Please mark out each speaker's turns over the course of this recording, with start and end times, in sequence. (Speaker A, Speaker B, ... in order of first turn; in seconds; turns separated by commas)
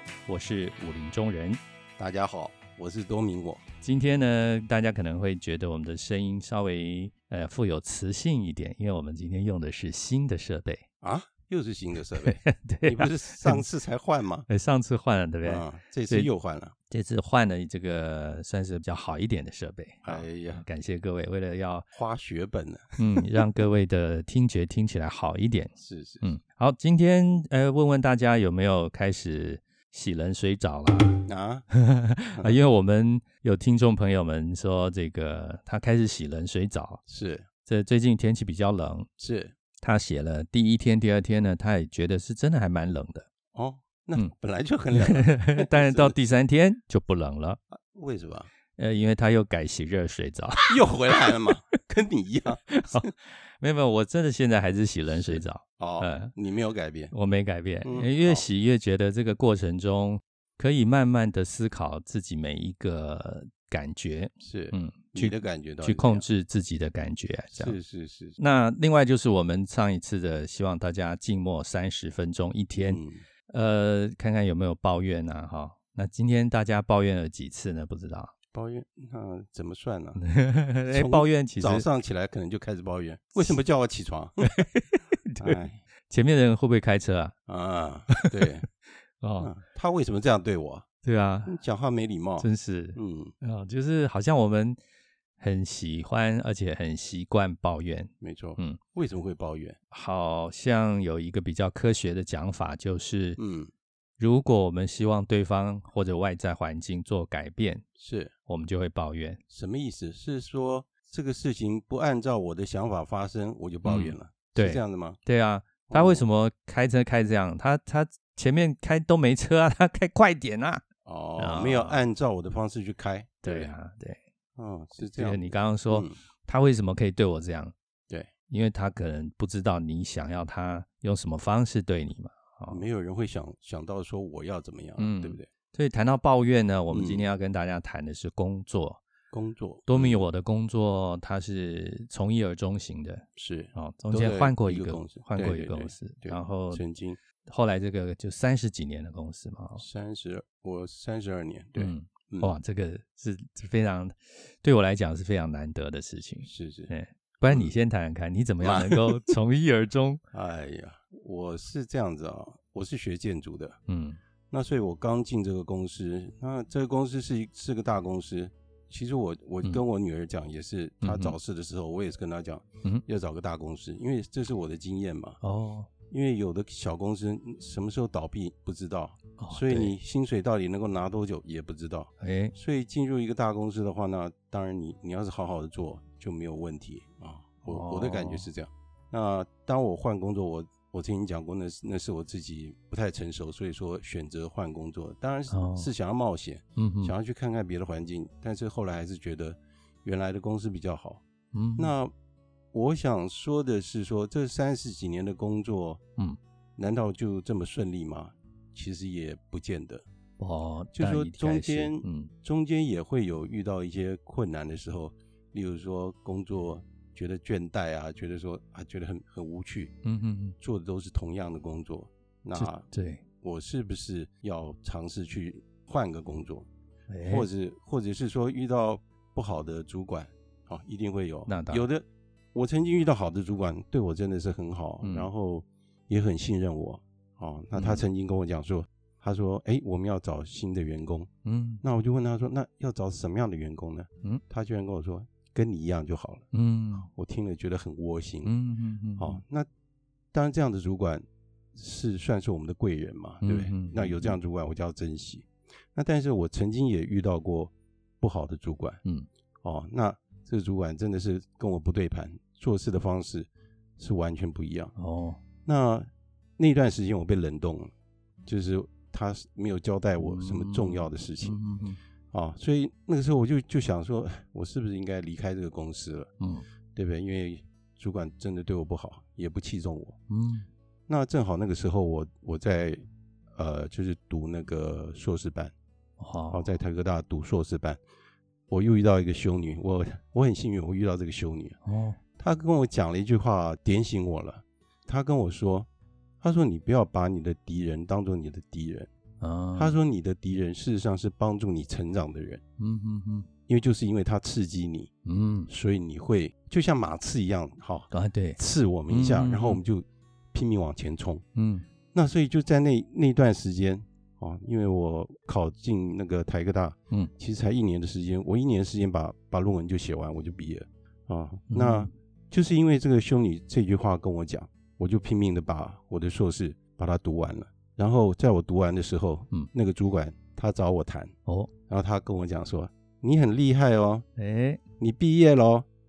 Speaker A: 0.2-1.6, Speaker B: 2.0-3.6, Speaker A: 3.8-10.8, Speaker B: 11.0-14.4, Speaker A: 12.2-13.6, Speaker A: 14.5-16.3, Speaker B: 15.4-16.7, Speaker A: 16.9-21.9, Speaker B: 20.0-20.6, Speaker B: 21.9-22.9, Speaker A: 23.0-31.2, Speaker B: 25.8-26.2, Speaker B: 31.2-31.7, Speaker A: 31.7-37.0, Speaker B: 37.1-37.5, Speaker A: 37.6-39.1, Speaker B: 39.2-39.5, Speaker A: 39.8-43.3, Speaker B: 43.5-46.1, Speaker A: 44.9-47.6, Speaker B: 47.9-48.5, Speaker A: 48.8-51.1, Speaker B: 50.7-53.1, Speaker A: 52.7-56.3, Speaker B: 55.1-57.1, Speaker A: 57.1-67.8, Speaker B: 57.8-58.4, Speaker B: 64.4-66.2, Speaker B: 67.5-68.4, Speaker A: 68.4-78.3, Speaker B: 72.9-73.2, Speaker B: 78.5-80.2, Speaker A: 80.2-81.9, Speaker B: 80.9-84.5, Speaker A: 84.4-87.3, Speaker B: 85.4-85.8, Speaker B: 87.5-88.6, Speaker A: 88.1-88.5, Speaker A: 89.2-89.5, Speaker B: 89.4-90.9, Speaker A: 91.0-91.6, Speaker B: 91.5-93.3, Speaker A: 92.4-94.8, Speaker A: 95.4-98.8, Speaker B: 98.2-99.8, Speaker A: 99.9-103.4, Speaker B: 103.4-103.7, Speaker A: 104.2-107.8, Speaker B: 108.0-108.3, Speaker A: 108.5-109.4, Speaker B: 109.5-115.2, Speaker A: 113.8-120.8, Speaker B: 115.9-116.2, Speaker B: 121.0-123.7, Speaker A: 121.4-122.0, Speaker A: 123.4-124.2, Speaker B: 124.5-126.2, Speaker A: 125.0-127.7, Speaker A: 128.5-132.8, Speaker B: 132.7-135.5, Speaker A: 135.0-139.0, Speaker B: 136.9-137.2, Speaker B: 139.3-140.2, Speaker A: 139.9-146.8, Speaker B: 143.3-147.2, Speaker A: 147.4-149.8, Speaker B: 149.8-152.5, Speaker A: 151.8-160.2, Speaker B: 156.4-156.9, Speaker B: 158.6-159.3, Speaker B: 160.3-163.8, Speaker A: 163.9-164.2, Speaker B: 164.5-175.4, Speaker A: 171.0-171.4, Speaker A: 175.4-175.9, Speaker B: 176.1-201.2, Speaker A: 179.4-179.9, Speaker A: 182.2-182.5, Speaker A: 187.6-188.5, Speaker A: 195.5-195.9, Speaker A: 196.8-197.1, Speaker A: 201.5-201.9, Speaker B: 201.8-202.1, Speaker B: 202.7-206.0, Speaker B: 206.8-210.0, Speaker A: 210.4-212.3, Speaker B: 210.9-219.9, Speaker A: 220.0-220.6, Speaker B: 220.6-222.8, Speaker A: 222.6-223.2, Speaker B: 223.4-226.7, Speaker A: 227.1-227.5, Speaker B: 227.2-241.3, Speaker A: 231.5-231.8, Speaker A: 235.0-235.3, Speaker A: 237.8-238.0, Speaker A: 241.4-241.8, Speaker B: 241.8-246.4, Speaker A: 246.5-247.1, Speaker B: 247.0-248.5, Speaker A: 248.4-249.4, Speaker B: 249.2-249.7, Speaker B: 250.3-259.0, Speaker A: 253.4-254.3, Speaker B: 259.6-264.9, Speaker A: 265.0-265.4, Speaker B: 265.6-267.9, Speaker B: 268.4-271.6, Speaker A: 270.2-272.0, Speaker B: 272.3-276.3, Speaker A: 276.4-276.6, Speaker B: 276.9-280.2, Speaker A: 280.3-280.7, Speaker B: 281.1-283.0, Speaker B: 283.5-285.7, Speaker A: 286.2-286.6, Speaker B: 286.5-288.0, Speaker B: 288.7-291.8, Speaker A: 291.8-292.2, Speaker B: 292.4-295.9, Speaker B: 296.4-299.1, Speaker A: 299.4-299.9, Speaker B: 299.8-302.6, Speaker A: 302.8-303.5, Speaker B: 303.7-305.1, Speaker A: 305.2-305.7, Speaker B: 305.7-311.4, Speaker A: 308.1-308.6, Speaker A: 309.1-309.8, Speaker A: 311.6-311.9, Speaker B: 312.1-331.3, Speaker A: 321.7-322.1, Speaker B: 331.9-334.2, Speaker A: 334.4-334.8, Speaker B: 335.0-335.9